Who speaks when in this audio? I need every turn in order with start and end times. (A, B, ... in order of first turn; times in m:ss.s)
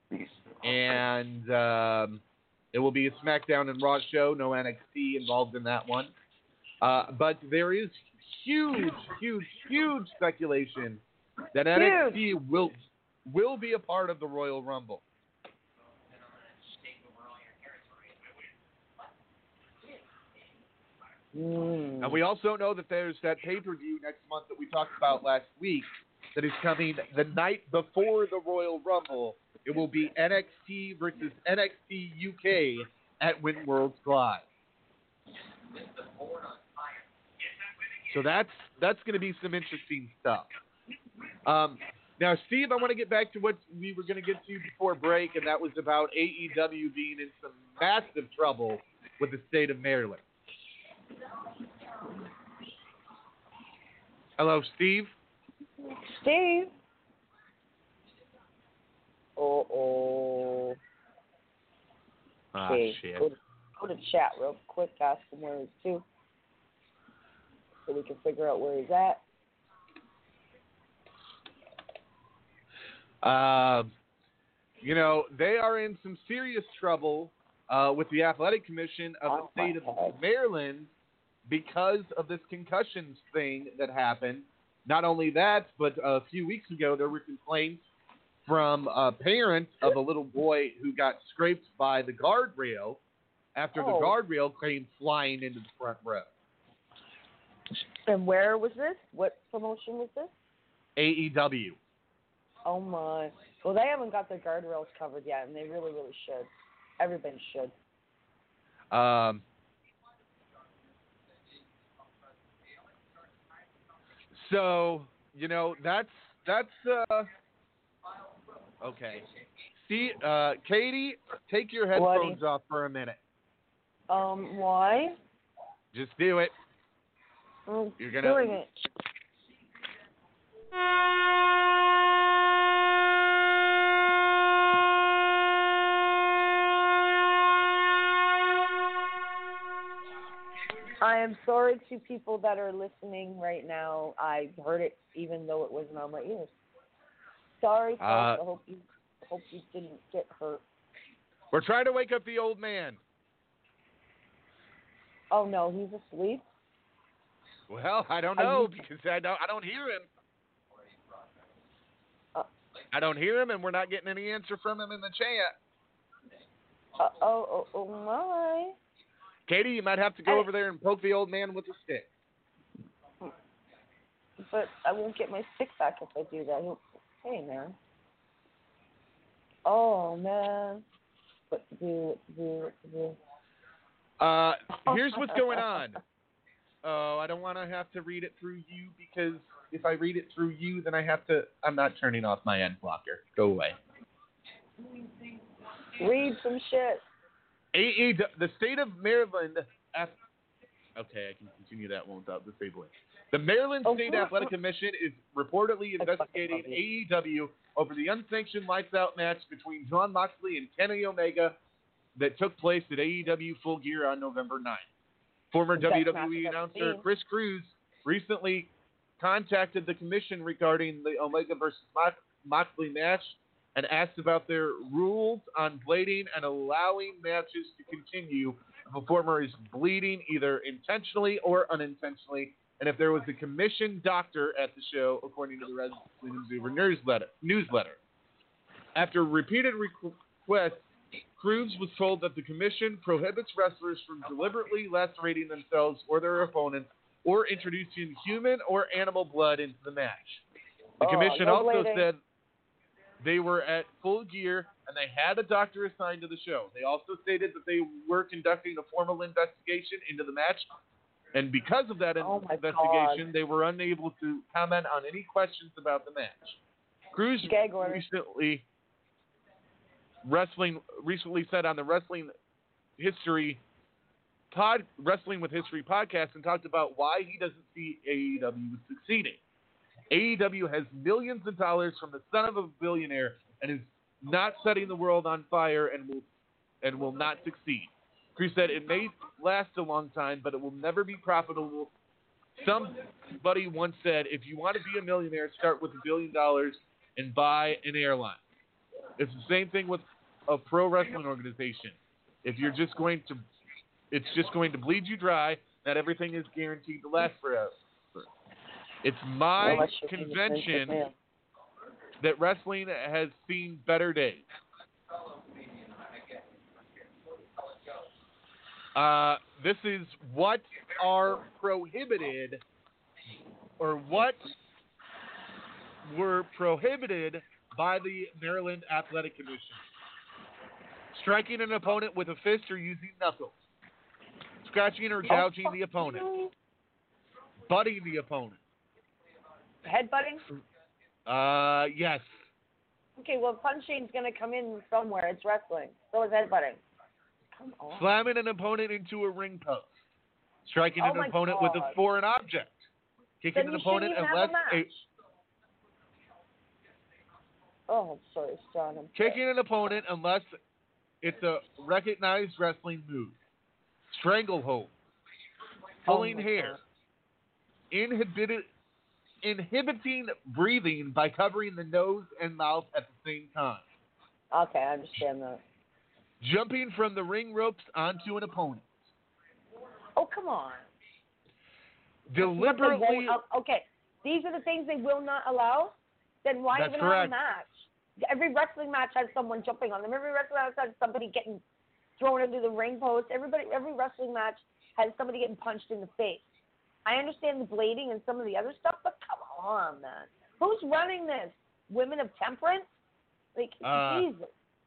0:00.6-0:06.1 A
0:06.8-0:11.0 A
0:11.5-0:15.0 A
0:11.7-0:12.2 B
0:21.3-0:22.2 B
0:22.0-0:34.4 A
0:38.1-0:40.5 A
0:41.4-0:50.2 A
0:54.4-0:55.1 A
0:55.8-0:56.7 B
0:59.4-1:00.8 B
1:02.5-1:03.3 A
1:02.6-1:06.0 B
1:07.9-1:09.2 B
1:13.2-1:13.9 A
1:14.8-1:20.9 A
1:19.3-1:20.2 B
1:21.4-1:27.9 A
1:28.5-1:33.0 A
1:33.6-1:36.3 A
1:33.7-1:34.2 B
1:38.0-1:40.3 B
1:41.0-1:41.8 A
1:42.6-1:47.7 B
1:48.9-1:49.4 A
1:54.3-1:57.3 A
1:58.8-2:03.2 A
2:01.9-2:02.4 B
2:04.1-2:05.2 B
2:05.9-2:06.5 A
2:07.7-2:08.9 B
2:08.0-2:08.6 A
2:21.0-2:26.5 B
2:27.6-2:30.6 B
2:28.0-2:28.4 A
2:31.5-2:33.0 A
2:35.3-2:36.4 B
2:37.7-2:40.1 A
2:38.4-2:38.8 B
2:42.9-2:45.5 A
2:47.0-2:48.8 B
2:49.5-2:52.1 A
2:54.4-2:57.8 B
2:59.6-3:00.8 B
3:01.5-3:03.2 B
3:04.2-3:06.0 A
3:04.9-3:05.7 B
3:06.8-3:13.8 A
3:16.0-3:17.0 B
3:17.7-3:20.2 A
3:21.0-3:31.6 A
3:23.8-3:24.5 B
3:26.0-3:26.8 B
3:32.2-3:34.8 A
3:35.5-3:58.0 A
3:35.8-3:37.0 B
3:58.9-4:00.8 A
4:01.4-4:10.4 A
4:11.0-4:12.1 B
4:11.0-4:12.2 A
4:13.2-4:20.7 A
4:21.3-4:26.6 A
4:22.2-4:23.2 B
4:27.1-4:28.6 A
4:27.4-4:28.0 B
4:30.2-4:32.3 A
4:33.0-4:33.6 A
4:34.5-4:39.4 A
4:40.1-4:46.3 A
4:46.8-4:51.9 A
4:52.6-4:58.4 A
4:59.2-5:03.4 A
5:04.1-5:08.3 A
5:09.0-5:11.0 A
5:09.6-5:11.1 B
5:12.2-5:14.4 A
5:18.9-5:22.6 A
5:23.8-5:24.4 A
5:26.0-5:29.8 A
5:31.1-5:33.5 A
5:34.6-5:36.2 A
5:35.2-5:36.5 B
5:37.7-5:38.6 A
5:39.8-5:40.4 B
5:41.3-5:42.4 A
5:43.2-5:46.8 B
5:47.6-5:48.1 B
5:48.0-5:49.9 A
5:50.6-5:52.9 A
5:51.0-5:52.0 B
5:53.4-5:54.9 A
5:53.5-5:54.8 B
5:57.9-5:59.4 B
5:59.2-6:00.5 A
6:01.2-6:03.3 A
6:04.1-6:04.9 A
6:06.0-6:06.8 B
6:06.1-6:06.8 A
6:07.9-6:08.7 A
6:09.4-6:13.8 A
6:14.5-6:15.6 B
6:16.4-6:19.1 A
6:20.2-6:20.9 B
6:22.3-6:23.4 A
6:22.4-6:31.6 B
6:26.7-6:27.3 A
6:32.2-6:36.4 B
6:37.0-6:42.8 B
6:43.5-6:44.5 B
6:43.8-6:44.3 A